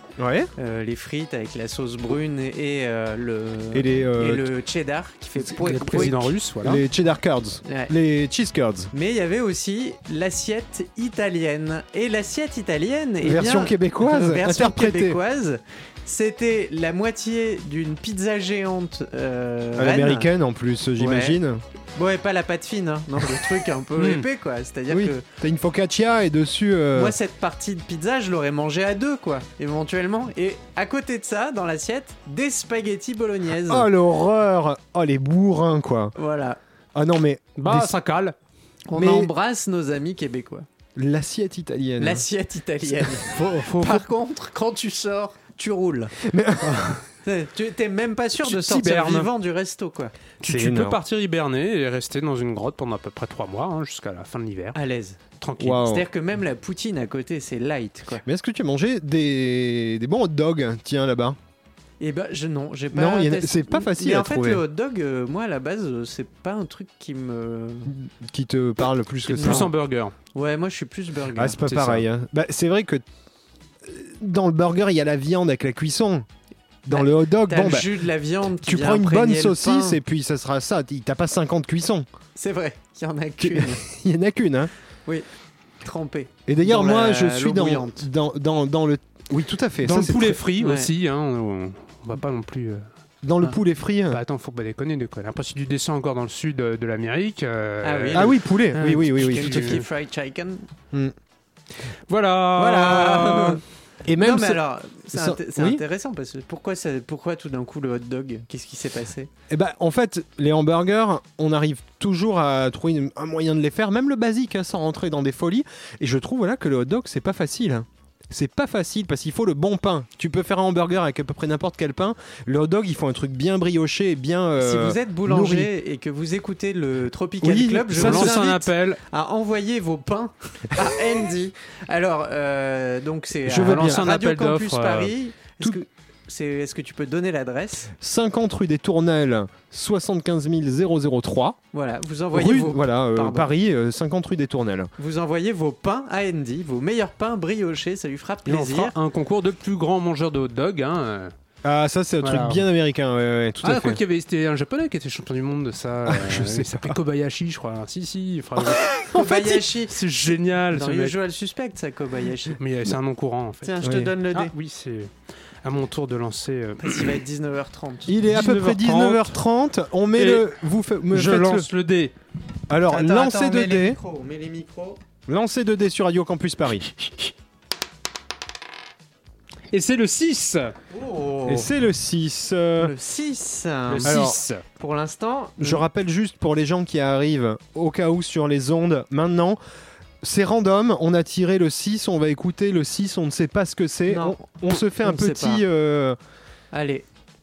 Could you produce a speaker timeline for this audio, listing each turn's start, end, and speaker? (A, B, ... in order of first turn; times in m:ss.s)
0:00.2-0:00.5 A
0:00.6-0:06.3 B
0:03.7-0:04.5 A
0:05.5-0:06.8 C
0:05.6-0:08.9 A
0:07.6-0:07.9 B
0:08.9-0:20.3 B
0:13.2-0:15.2 A
0:19.8-0:21.6 A
0:21.0-0:21.4 B
0:22.0-0:25.2 B
0:24.0-0:24.2 C
0:24.9-0:27.2 A
0:26.9-0:33.9 B
0:33.7-0:36.1 A
0:36.2-0:36.6 B
0:36.9-0:37.9 A
0:37.6-0:38.3 C
0:38.9-0:40.6 B
0:38.9-0:39.3 A
0:41.0-0:42.2 A
0:42.0-0:46.1 B
0:43.0-0:43.5 A
0:43.4-0:44.0 C
0:46.2-0:47.0 A
0:47.2-0:50.1 B
0:48.4-0:49.3 C
0:50.4-0:54.8 C
0:50.4-0:51.0 A
0:54.7-0:55.2 B
0:55.4-0:55.8 C
0:55.6-0:56.0 A
0:55.8-0:58.2 B
0:58.2-1:01.4 A
1:02.0-1:07.9 B
1:02.9-1:04.6 A
1:07.9-1:09.7 A
1:09.3-1:10.1 C
1:09.4-1:09.7 B
1:10.3-1:11.6 B
1:11.3-1:13.0 A
1:11.6-1:12.0 C
1:13.8-1:16.2 A
1:16.8-1:17.9 A
1:16.9-1:20.0 B
1:18.6-1:22.1 A
1:22.4-1:23.8 B
1:23.4-1:24.7 A
1:25.8-1:28.0 B
1:26.5-1:30.4 A
1:29.8-1:32.8 C
1:30.6-1:30.9 B
1:33.2-1:34.2 A
1:34.1-1:39.8 C
1:37.8-1:40.7 B
1:38.1-1:39.8 A
1:42.1-1:43.6 C
1:42.6-1:43.6 B
1:44.0-1:45.8 A
1:44.2-1:49.3 B
1:49.5-2:05.7 A
2:04.6-2:17.9 B
2:07.4-2:08.4 A
2:07.9-2:09.0 C
2:13.5-2:14.0 A
2:13.6-2:15.1 C
2:18.0-2:21.6 A
2:21.7-2:23.5 B
2:22.3-2:24.9 A
2:25.0-2:28.9 B
2:28.4-2:31.3 C
2:31.6-2:34.0 A
2:32.2-2:32.6 C
2:33.6-2:41.2 C
2:36.0-2:37.0 A
2:39.1-2:39.9 B
2:40.7-2:42.6 B
2:42.6-2:45.1 C
2:43.6-2:44.5 B
2:43.8-2:44.1 A
2:45.6-2:47.1 C
2:46.8-2:48.1 B
2:48.1-2:51.7 A
2:48.3-2:49.4 C
2:50.2-2:50.5 C
2:51.1-2:52.1 C
2:52.7-2:54.0 A
2:52.9-2:55.0 B
2:55.3-2:56.9 A
2:59.7-3:00.7 C
3:00.9-3:01.7 B
3:01.4-3:02.9 A
3:02.8-3:05.8 B
3:03.9-3:04.6 C
3:04.0-3:04.4 A
3:05.6-3:09.6 A
3:10.2-3:16.2 A
3:14.1-3:15.6 B
3:16.7-3:17.0 B